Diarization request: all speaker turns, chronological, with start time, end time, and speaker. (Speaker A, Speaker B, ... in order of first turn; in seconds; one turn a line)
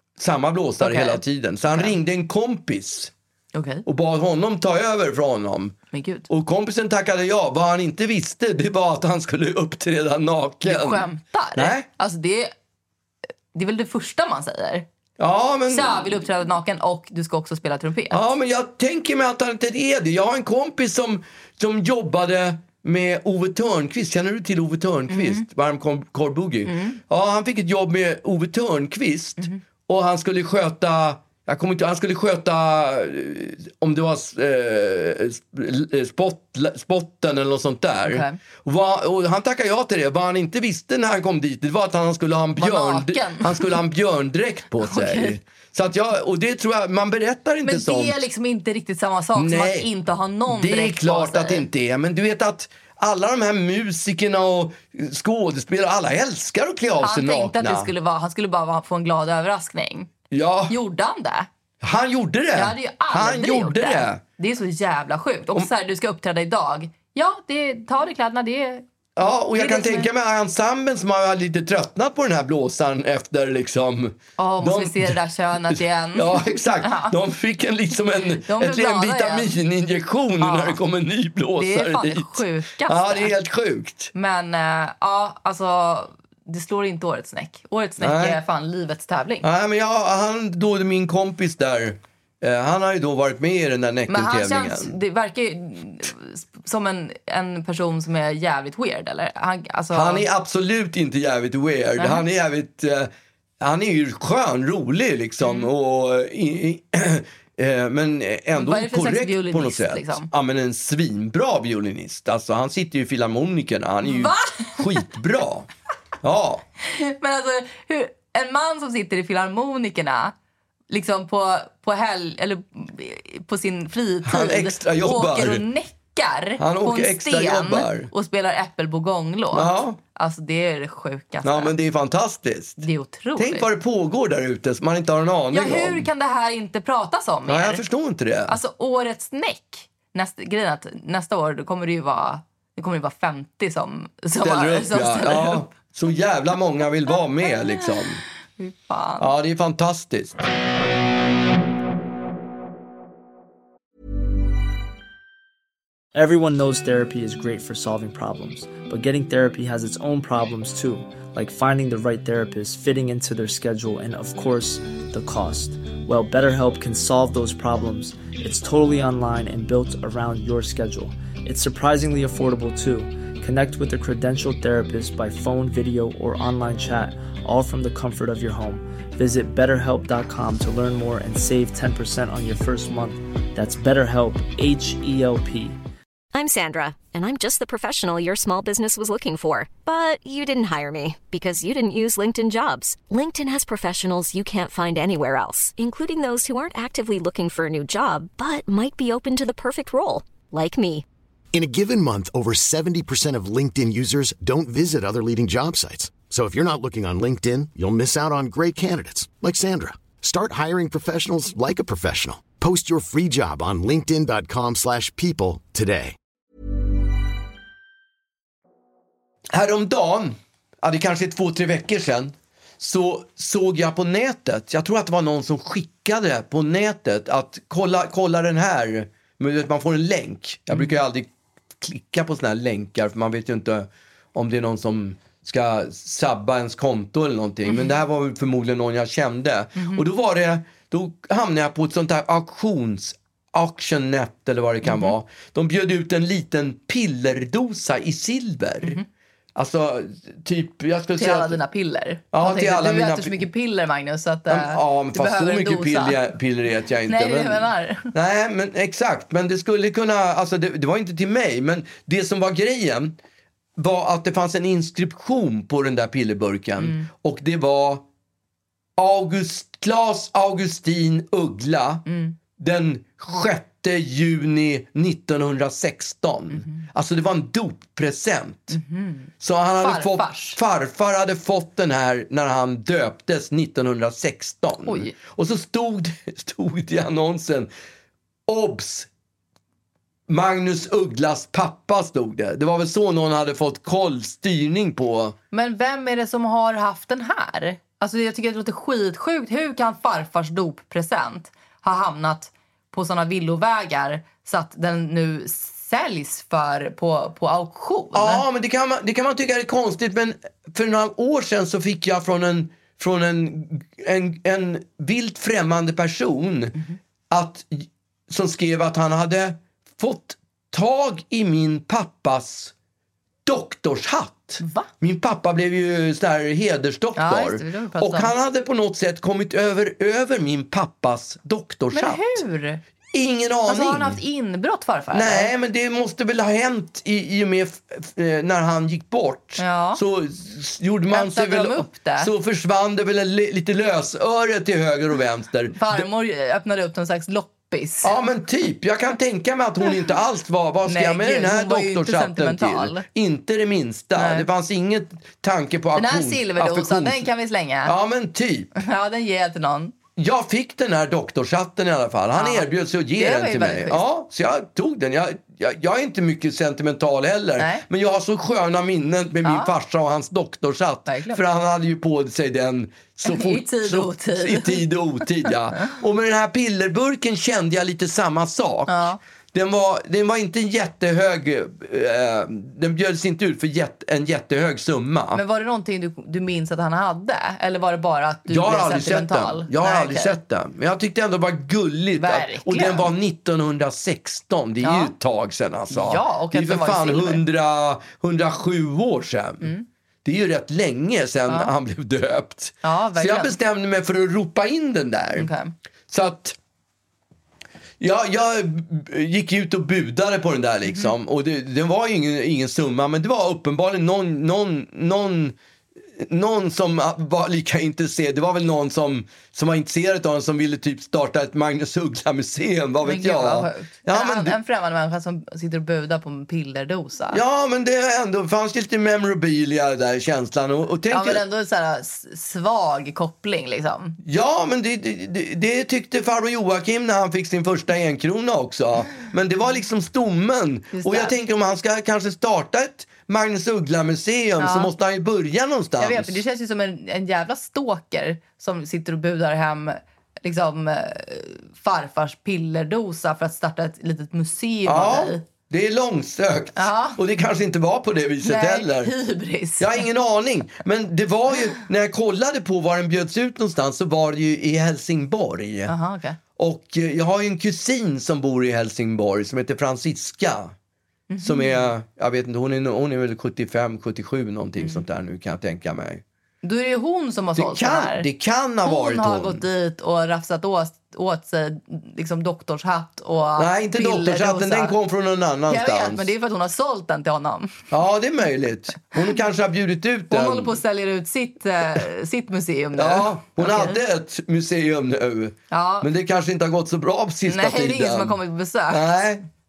Speaker A: 0.2-3.1
Speaker B: 0.8-1.9
Speaker B: 3.5-3.8
Speaker A: 3.8-5.8
Speaker B: 5.9-6.3
Speaker A: 6.3-11.9
Speaker B: 10.6-12.5
Speaker B: 13.5-14.8
Speaker A: 15.2-16.2
Speaker B: 15.7-18.2
Speaker A: 18.1-48.2
Speaker B: 25.1-25.4
Speaker B: 26.6-27.0
Speaker B: 38.0-38.4
Speaker B: 42.6-43.8
Speaker B: 44.8-45.4
Speaker B: 47.6-51.6
Speaker A: 49.3-49.9
Speaker A: 50.5-57.9
Speaker B: 57.0-60.1
Speaker A: 60.3-60.8
Speaker B: 60.7-61.5
Speaker A: 61.8-64.2
Speaker B: 62.5-68.8
Speaker A: 69.2-84.1
Speaker B: 69.5-70.1
Speaker B: 74.4-77.1
Speaker B: 78.5-79.5
Speaker B: 80.4-80.8
Speaker B: 81.5-83.3
Speaker B: 84.1-89.5
Speaker A: 88.0-88.4
Speaker A: 89.4-94.9
Speaker B: 94.1-100.2
Speaker A: 99.9-115.7
Speaker B: 102.0-102.2
Speaker B: 105.4-105.7
Speaker B: 108.5-110.3
Speaker B: 114.0-115.0
Speaker A: 116.2-116.6
Speaker B: 116.8-120.3
Speaker B: 120.9-131.7
Speaker A: 124.2-125.6
Speaker A: 126.6-128.1
Speaker A: 129.5-130.0
Speaker A: 131.4-132.8
Speaker B: 132.8-133.7
Speaker A: 133.3-136.1
Speaker B: 135.5-137.8
Speaker A: 137.5-138.6
Speaker B: 138.5-145.7
Speaker A: 144.4-148.2
Speaker B: 148.6-149.3
Speaker A: 149.2-150.4
Speaker C: 156.1-185.8
Speaker D: 186.3-201.0
Speaker E: 201.5-216.2
Speaker A: 219.5-249.0
Speaker B: 239.8-240.0
Speaker B: 244.8-245.1
Speaker A: 249.6-251.6
Speaker B: 251.2-256.2
Speaker A: 252.3-253.4
Speaker A: 254.5-263.2
Speaker B: 257.1-258.1
Speaker A: 263.8-268.0
Speaker B: 266.8-267.1
Speaker A: 269.0-272.1
Speaker B: 272.1-272.4
Speaker A: 272.6-278.8
Speaker B: 278.7-280.6
Speaker A: 279.4-287.7
Speaker B: 284.9-285.1
Speaker A: 288.5-289.1
Speaker A: 290.3-295.4
Speaker B: 295.5-308.4
Speaker A: 308.1-316.8
Speaker A: 317.3-322.7
Speaker A: 323.4-332.4
Speaker B: 324.6-324.9
Speaker B: 327.1-328.3
Speaker B: 331.9-332.8
Speaker A: 333.1-334.2
Speaker B: 333.7-335.5
Speaker A: 335.1-346.1
Speaker B: 339.6-340.0
Speaker B: 341.1-342.3
Speaker B: 345.7-348.1
Speaker A: 348.0-357.3
Speaker B: 350.9-353.0
Speaker B: 354.1-354.5
Speaker B: 355.9-357.9
Speaker A: 357.8-358.7
Speaker B: 358.8-359.9
Speaker A: 360.1-385.4
Speaker B: 362.3-364.0
Speaker B: 367.6-367.8
Speaker B: 369.4-369.7
Speaker B: 371.1-371.4
Speaker B: 373.2-374.9
Speaker B: 378.9-379.2
Speaker B: 385.3-390.4
Speaker A: 388.5-399.7
Speaker B: 392.2-393.1
Speaker B: 394.8-395.1
Speaker B: 395.9-397.4
Speaker A: 400.2-405.5
Speaker B: 402.8-403.6
Speaker B: 405.4-405.7
Speaker A: 406.1-406.6
Speaker A: 408.0-415.6
Speaker B: 410.9-411.1
Speaker A: 416.1-424.6
Speaker B: 423.0-427.4
Speaker A: 427.3-431.4
Speaker B: 431.1-434.2
Speaker A: 434.2-446.4
Speaker B: 440.9-441.3
Speaker B: 444.6-444.9
Speaker B: 446.0-455.4
Speaker A: 454.8-459.1
Speaker B: 456.8-457.2
Speaker B: 458.4-460.0
Speaker A: 459.8-465.9
Speaker B: 465.9-466.4
Speaker A: 466.6-470.7
Speaker B: 471.3-471.9
Speaker A: 471.4-476.2
Speaker B: 476.6-478.3
Speaker A: 477.6-479.6
Speaker B: 478.8-484.9
Speaker A: 483.6-486.3
Speaker B: 485.7-487.8
Speaker A: 487.9-490.8
Speaker B: 490.3-494.0
Speaker A: 492.9-499.4
Speaker B: 495.7-496.1
Speaker B: 497.4-499.1